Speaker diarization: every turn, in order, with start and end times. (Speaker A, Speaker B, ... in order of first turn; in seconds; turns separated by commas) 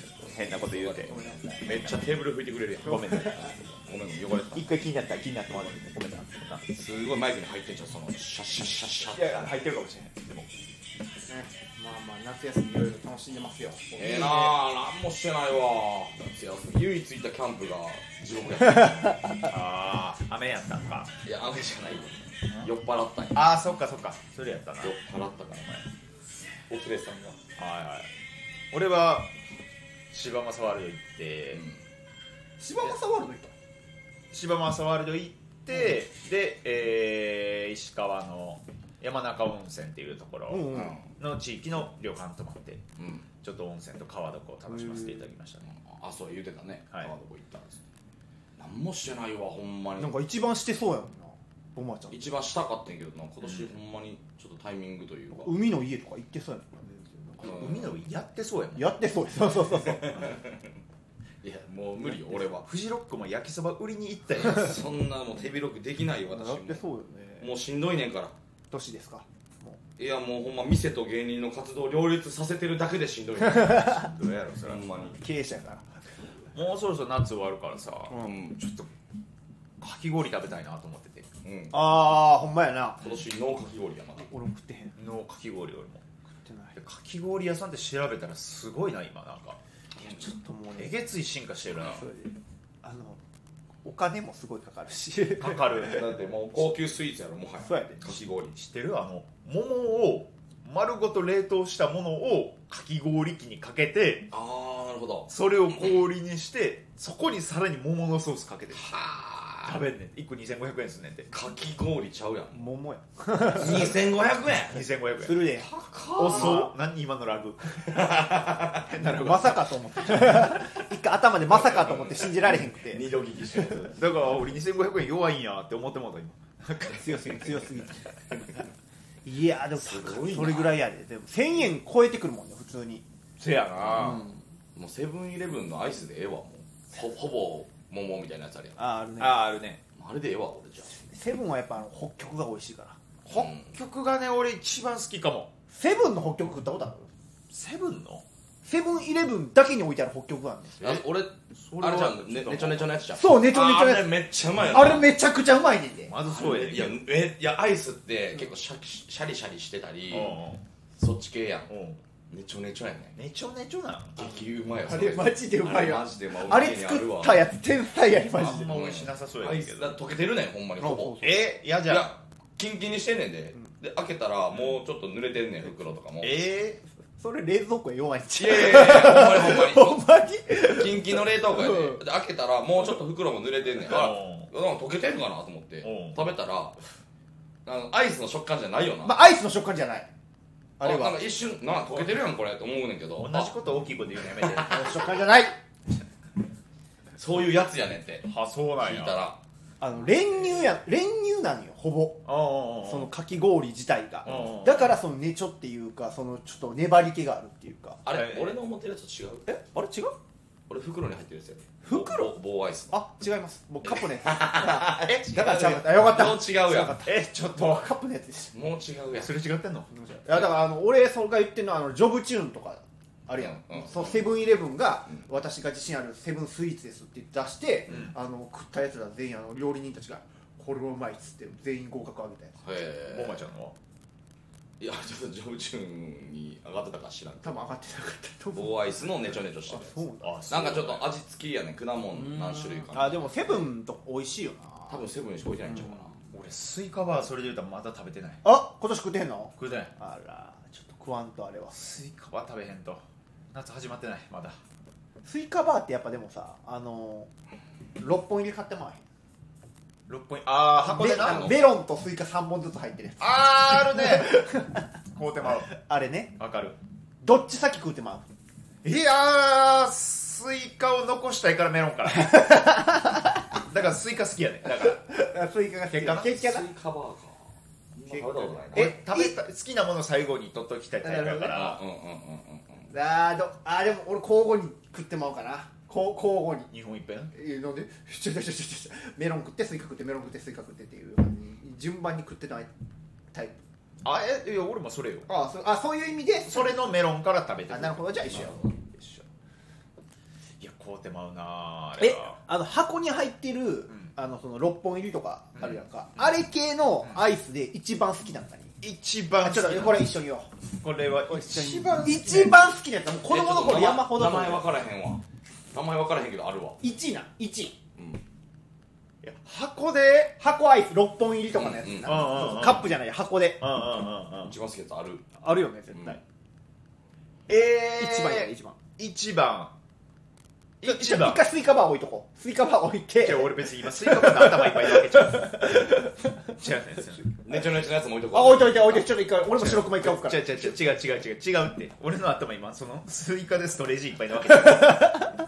Speaker A: 0.3-2.1, Speaker B: 0.4-4.7, Speaker C: 1.1-1.6, Speaker A: 2.8-3.5, Speaker A: 4.5-6.6, Speaker B: 6.7-9.5, Speaker A: 9.1-10.5, Speaker C: 11.3-14.4, Speaker B: 14.0-19.2, Speaker A: 14.0-14.5, Speaker C: 18.8-19.5, Speaker A: 19.5-21.1, Speaker B: 21.2-23.5, Speaker A: 23.3-24.9, Speaker B: 24.8-25.9, Speaker B: 26.7-27.4, Speaker A: 27.6-28.1, Speaker A: 28.7-29.3, Speaker A: 30.1-31.6, Speaker B: 31.5-31.8, Speaker C: 32.6-33.5, Speaker A: 34.3-42.8, Speaker C: 40.5-41.0, Speaker B: 40.7-41.0, Speaker B: 43.0-43.3, Speaker A: 43.4-45.7, Speaker C: 44.7-45.2, Speaker B: 45.7-47.8, Speaker B: 48.5-50.1, Speaker C: 50.0-52.2, Speaker B: 52.1-55.6, Speaker C: 55.3-57.7, Speaker A: 57.4-59.0, Speaker B: 57.4-58.0, Speaker C: 58.8-60.3, Speaker B: 59.7-60.7, Speaker B: 61.4-62.6, Speaker A: 62.6-64.8, Speaker B: 64.3-66.8, Speaker C: 66.3-67.5, Speaker B: 67.4-68.3, Speaker C: 68.7-69.8, Speaker B: 70.0-75.2, Speaker C: 73.4-74.1, Speaker A: 73.9-74.8, Speaker C: 75.1-75.9, Speaker A: 76.5-78.9, Speaker B: 78.1-78.6, Speaker A: 79.8-81.3, Speaker B: 81.4-81.8, Speaker C: 81.7-83.0, Speaker B: 83.0-84.3, Speaker C: 84.2-85.0, Speaker A: 85.0-86.0, Speaker C: 86.5-86.8, Speaker A: 86.8-89.6, Speaker C: 90.0-91.0, Speaker A: 90.8-92.0, Speaker C: 91.8-93.2, Speaker C: 93.8-96.1, Speaker A: 95.4-96.1, Speaker B: 95.8-98.5, Speaker C: 97.6-98.0, Speaker A: 98.5-104.3, Speaker B: 104.3-106.0, Speaker A: 105.3-108.9, Speaker B: 108.7-109.8, Speaker A: 109.6-111.3, Speaker B: 111.3-112.6, Speaker C: 112.5-114.0, Speaker B: 113.5-114.8, Speaker A: 114.5-115.5, Speaker C: 115.2-115.7, Speaker B: 115.5-116.7, Speaker A: 116.2-118.0, Speaker C: 116.3-116.7, Speaker B: 117.8-118.9, Speaker A: 118.9-119.6, Speaker C: 118.9-123.0, Speaker A: 120.1-120.5, Speaker B: 121.5-124.1, Speaker A: 124.0-127.3, Speaker C: 126.8-128.0, Speaker C: 129.2-133.0, Speaker B: 129.8-130.8, Speaker A: 133.4-134.2, Speaker B: 133.8-138.8, Speaker C: 133.9-134.4, Speaker C: 138.8-139.5, Speaker A: 139.2-139.8, Speaker B: 140.0-141.0, Speaker C: 140.9-143.0, Speaker A: 143.2-145.5, Speaker B: 143.3-143.7, Speaker C: 145.7-147.1, Speaker A: 147.5-148.2, Speaker C: 148.6-150.8, Speaker B: 150.8-155.1, Speaker A: 151.5-152.9, Speaker C: 153.2-154.1, Speaker C: 154.7-156.1, Speaker A: 156.1-157.0, Speaker B: 156.2-160.4, Speaker A: 160.1-160.6, Speaker B: 161.0-161.7, Speaker A: 161.7-162.0, Speaker B: 162.3-163.2, Speaker A: 163.2-164.2, Speaker B: 164.2-167.4, Speaker C: 164.8-168.7, Speaker A: 168.3-170.0, Speaker B: 168.4-171.3, Speaker C: 170.8-171.3, Speaker A: 171.2-172.1, Speaker B: 171.8-176.5, Speaker A: 176.2-176.8, Speaker C: 177.2-182.0, Speaker B: 178.4-180.1, Speaker B: 180.6-186.8, Speaker A: 183.8-184.5, Speaker A: 185.8-186.2, Speaker B: 187.7-189.2, Speaker C: 189.0-190.1, Speaker C: 190.8-191.2, Speaker B: 190.8-193.6, Speaker A: 193.2-195.0, Speaker B: 194.3-194.8, Speaker C: 194.7-195.6, Speaker B: 197.2-198.2, Speaker A: 198.2-199.2, Speaker B: 198.8-199.4, Speaker C: 199.8-202.3, Speaker A: 202.2-203.1, Speaker C: 202.8-208.0, Speaker A: 204.2-204.9, Speaker B: 208.1-209.5, Speaker A: 208.1-208.6, Speaker C: 209.5-210.2, Speaker B: 210.7-213.0, Speaker C: 211.8-212.3, Speaker C: 212.9-218.5, Speaker B: 213.8-217.0, Speaker A: 215.0-215.6, Speaker A: 217.0-217.8, Speaker B: 218.5-219.4, Speaker A: 219.1-219.9, Speaker C: 219.9-232.6, Speaker B: 223.4-224.3, Speaker B: 232.6-233.4, Speaker A: 233.1-233.8, Speaker B: 234.8-237.7, Speaker C: 237.4-239.0, Speaker B: 238.5-243.7, Speaker C: 239.7-240.4, Speaker A: 240.2-241.2, Speaker C: 242.9-245.0, Speaker B: 244.9-246.2, Speaker C: 245.7-246.0, Speaker A: 246.3-248.4, Speaker C: 248.4-251.9, Speaker A: 249.6-249.9, Speaker A: 251.7-253.0, Speaker A: 253.5-254.6, Speaker C: 255.2-257.3, Speaker C: 258.0-259.0, Speaker A: 260.1-261.5, Speaker C: 260.9-264.9, Speaker B: 260.9-261.7, Speaker A: 263.2-264.4, Speaker A: 265.1-265.7, Speaker C: 265.7-266.4, Speaker A: 266.4-266.8, Speaker C: 267.2-268.3, Speaker A: 268.8-272.9, Speaker C: 272.1-273.2, Speaker A: 273.5-275.0, Speaker C: 274.8-276.7, Speaker A: 275.9-276.5, Speaker B: 276.1-278.9, Speaker C: 278.1-279.4, Speaker A: 278.7-281.8, Speaker C: 281.0-281.8, Speaker B: 281.5-282.9, Speaker C: 282.9-286.7, Speaker A: 286.7-287.3, Speaker C: 287.3-292.7, Speaker C: 293.3-293.6, Speaker A: 294.0-295.3, Speaker C: 295.3-296.9, Speaker A: 296.5-298.5, Speaker C: 297.7-299.2, Speaker A: 300.6-302.4, Speaker C: 302.0-308.8, Speaker A: 305.6-306.2, Speaker A: 308.8-310.1, Speaker C: 309.4-310.5, Speaker A: 310.8-312.7, Speaker C: 311.3-314.6, Speaker B: 313.3-316.8, Speaker C: 316.8-317.8, Speaker B: 318.0-318.2, Speaker A: 319.2-320.4, Speaker C: 320.4-323.6, Speaker B: 321.5-322.6, Speaker A: 322.1-322.9, Speaker A: 323.6-324.5, Speaker B: 324.4-325.2, Speaker C: 325.4-326.2, Speaker B: 325.9-326.2, Speaker A: 327.5-329.7, Speaker C: 327.9-328.8, Speaker A: 330.8-331.5, Speaker C: 330.8-336.5, Speaker A: 333.2-335.9, Speaker A: 336.6-337.2, Speaker B: 337.4-339.1, Speaker C: 338.3-340.7, Speaker A: 339.5-345.2, Speaker C: 344.5-345.3